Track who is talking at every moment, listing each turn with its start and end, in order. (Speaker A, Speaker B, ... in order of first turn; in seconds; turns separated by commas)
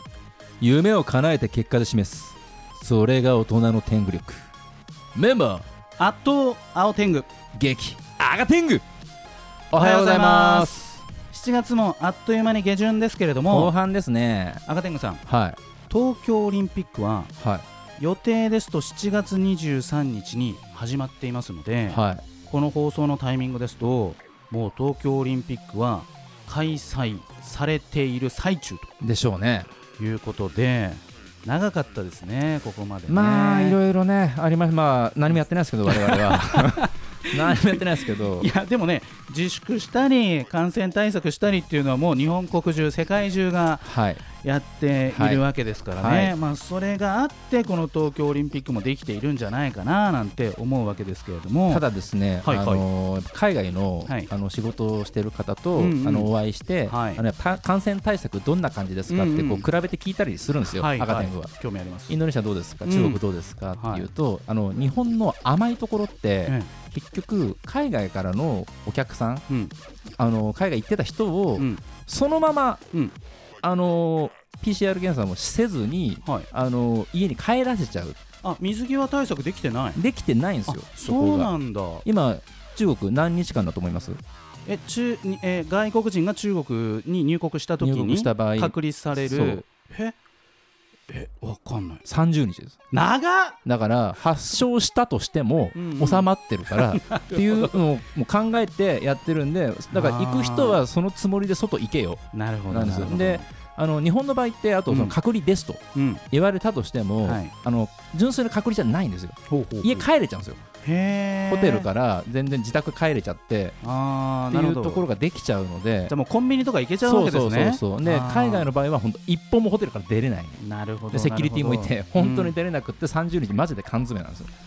Speaker A: 0.6-4.5, Speaker A: 5.1-5.6, Speaker B: 6.0-7.3, Speaker A: 7.5-8.8, Speaker A: 9.7-11.0, Speaker B: 9.7-10.8, Speaker B: 11.3-13.7, Speaker A: 13.5-14.6, Speaker B: 14.7-15.2, Speaker A: 15.2-15.6, Speaker B: 15.9-17.3, Speaker A: 17.4-17.6, Speaker B: 18.0-28.9, Speaker A: 21.9-22.3, Speaker A: 29.0-29.7, Speaker B: 30.0-33.8, Speaker A: 33.1-38.5, Speaker B: 35.9-36.9, Speaker B: 38.4-51.8, Speaker A: 43.8-44.3, Speaker A: 45.1-45.4, Speaker A: 46.0-46.3, Speaker A: 51.7-61.6, Speaker B: 52.4-52.9, Speaker B: 54.0-54.3, Speaker B: 55.7-56.3, Speaker B: 56.8-57.2, Speaker B: 59.1-59.7, Speaker B: 60.6-62.2, Speaker A: 62.1-69.4, Speaker B: 62.8-63.2, Speaker B: 63.7-64.1, Speaker B: 69.5-69.7, Speaker A: 70.2-72.8, Speaker B: 71.6-71.8, Speaker A: 73.6-78.2, Speaker B: 78.4-80.0, Speaker A: 79.9-81.5, Speaker B: 80.7-82.0, Speaker A: 82.0-84.2, Speaker B: 84.7-90.1, Speaker A: 87.8-89.6, Speaker B: 91.1-92.0, Speaker A: 92.0-92.8, Speaker B: 92.9-93.6, Speaker A: 93.6-110.6, Speaker B: 95.7-97.7, Speaker B: 99.9-100.8, Speaker B: 102.3-103.5, Speaker B: 104.9-105.2, Speaker B: 105.9-106.2, Speaker B: 107.2-107.5, Speaker B: 109.5-110.1, Speaker B: 110.8-111.9, Speaker A: 111.5-113.8, Speaker B: 113.8-115.0, Speaker A: 114.5-116.1, Speaker B: 116.1-118.7, Speaker A: 117.0-124.5, Speaker B: 120.6-122.5